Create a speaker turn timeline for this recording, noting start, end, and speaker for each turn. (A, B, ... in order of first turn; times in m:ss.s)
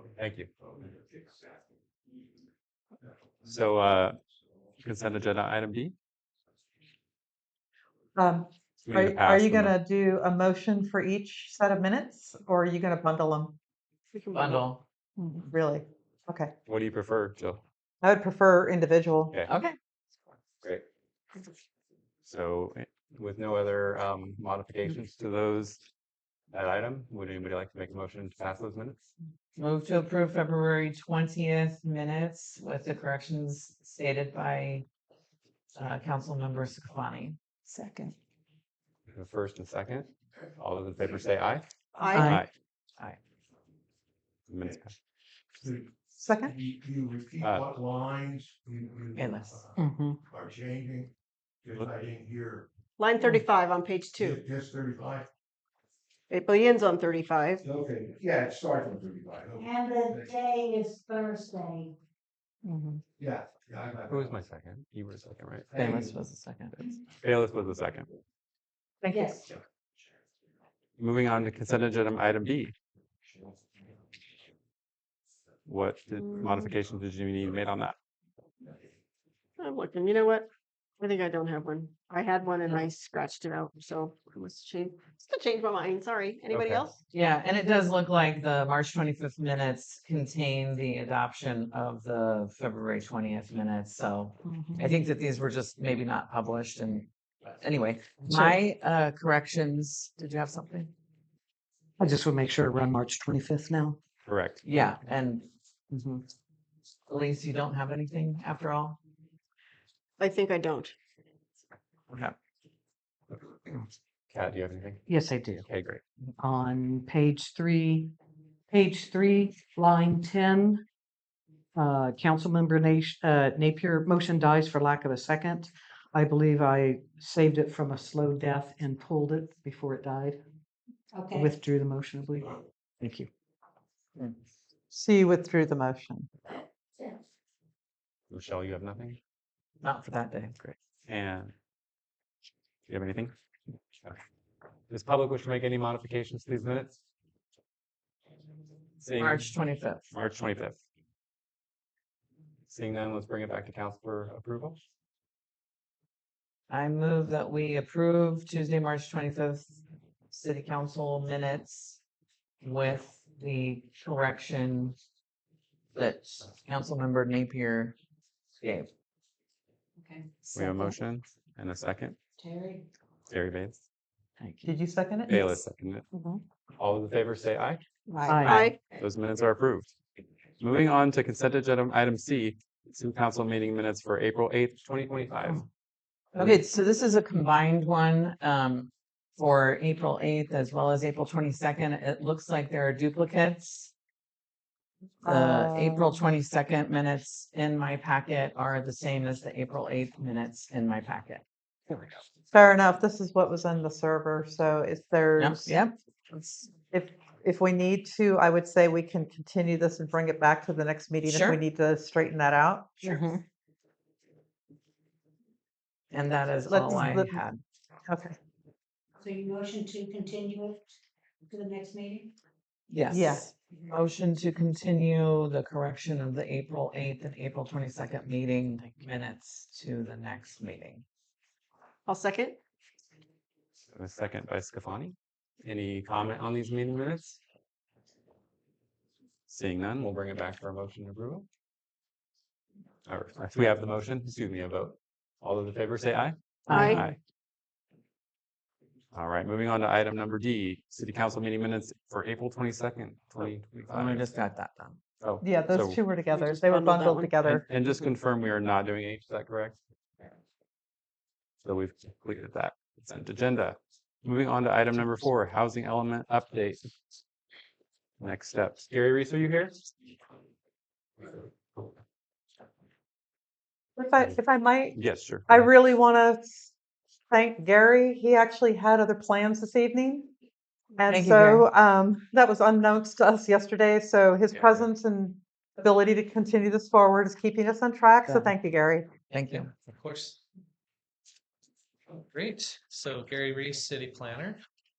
0:00.2-0:00.5 A
0:03.4-0:04.2 A
0:04.8-0:06.0 A
0:08.2-0:13.5 B
0:08.8-0:09.7 A
0:14.1-0:14.7 C
0:14.4-0:14.8 D
0:15.5-0:16.5 B
0:16.7-0:17.6 A
0:18.0-0:19.4 B
0:19.5-0:19.8 D
0:22.2-0:25.8 A
0:26.5-0:29.0 A
0:29.6-0:34.8 D
0:35.8-0:37.4 D
0:37.7-0:38.0 E
0:39.1-0:41.7 A
0:42.0-0:42.4 C
0:42.1-0:42.4 D
0:42.2-0:42.5 A
0:44.5-0:44.9 A
0:45.6-0:51.1 F
0:46.2-0:46.6 B
0:47.4-0:47.7 A
0:49.1-0:49.7 D
0:49.8-0:50.2 E
0:51.6-0:52.7 F
0:53.0-0:54.4 C
0:54.2-0:55.3 F
0:56.3-0:57.6 C
0:57.6-1:00.3 F
0:59.6-1:01.9 G
1:03.2-1:04.4 F
1:04.1-1:06.0 A
1:05.7-1:06.1 F
1:05.8-1:06.7 D
1:07.2-1:08.1 A
1:11.0-1:12.8 A
1:15.7-1:18.0 A
1:19.6-1:20.5 C
1:21.0-1:27.0 C
1:26.5-1:26.9 A
1:27.1-1:40.9 D
1:34.5-1:35.0 E
1:42.0-1:44.0 E
1:44.2-1:44.6 A
1:44.6-1:45.4 D
1:45.9-1:46.2 E
1:47.1-1:49.0 D
1:50.2-1:50.9 C
1:54.3-1:55.0 A
1:55.1-1:55.6 E
1:55.6-1:56.0 A
1:56.4-1:58.1 E
1:58.7-2:00.8 E
2:01.8-2:10.4 E
2:11.1-2:11.5 G
2:11.3-2:13.3 E
2:14.9-2:16.3 B
2:18.3-2:19.2 A
2:19.8-2:20.6 D
2:20.6-2:21.5 A
2:22.9-2:23.3 A
2:24.9-2:27.0 A
2:29.0-2:29.5 A
2:29.2-2:30.0 D
2:30.1-2:30.8 A
2:32.7-2:34.8 A
2:36.7-2:39.8 D
2:40.3-2:42.0 D
2:42.6-2:45.0 D
2:46.0-2:48.0 D
2:48.6-2:48.9 D
2:50.0-2:50.9 E
2:50.5-2:52.2 A
2:52.4-2:52.8 E
2:53.3-2:53.8 A
2:54.4-2:54.7 E
2:54.6-2:55.4 B
2:55.3-2:56.1 A
2:56.8-2:57.8 A
2:58.1-2:58.8 C
2:58.2-2:58.7 E
2:58.5-2:59.9 A
3:00.6-3:05.7 A
3:06.3-3:13.9 D
3:15.2-3:21.4 D
3:15.2-3:16.1 B
3:22.5-3:25.7 B
3:25.4-3:26.6 D
3:26.9-3:33.3 B
3:31.2-3:31.6 D
3:33.0-3:33.4 E
3:36.1-3:37.6 D
3:36.7-3:37.4 B
3:38.1-3:38.4 B
3:39.2-3:40.9 G
3:41.5-3:42.3 G
3:42.9-3:51.0 D
3:43.1-3:43.5 B
3:52.1-3:52.6 C
3:53.9-3:57.4 A
3:59.5-4:01.5 A
4:03.1-4:07.2 A
4:06.7-4:07.1 D
4:06.7-4:07.0 C
4:09.1-4:14.3 A
4:13.9-4:15.0 D
4:15.2-4:16.0 A
4:15.4-4:17.6 B
4:16.3-4:17.3 C
4:17.4-4:19.8 A
4:21.6-4:26.9 A
4:28.2-4:29.8 A
4:34.0-4:36.7 B
4:34.9-4:35.7 A
4:37.3-4:40.3 B
4:41.0-4:49.1 B
4:41.1-4:41.7 D
4:44.5-4:44.9 A
4:49.3-4:49.7 D
4:49.9-4:50.4 H
4:52.3-4:54.6 H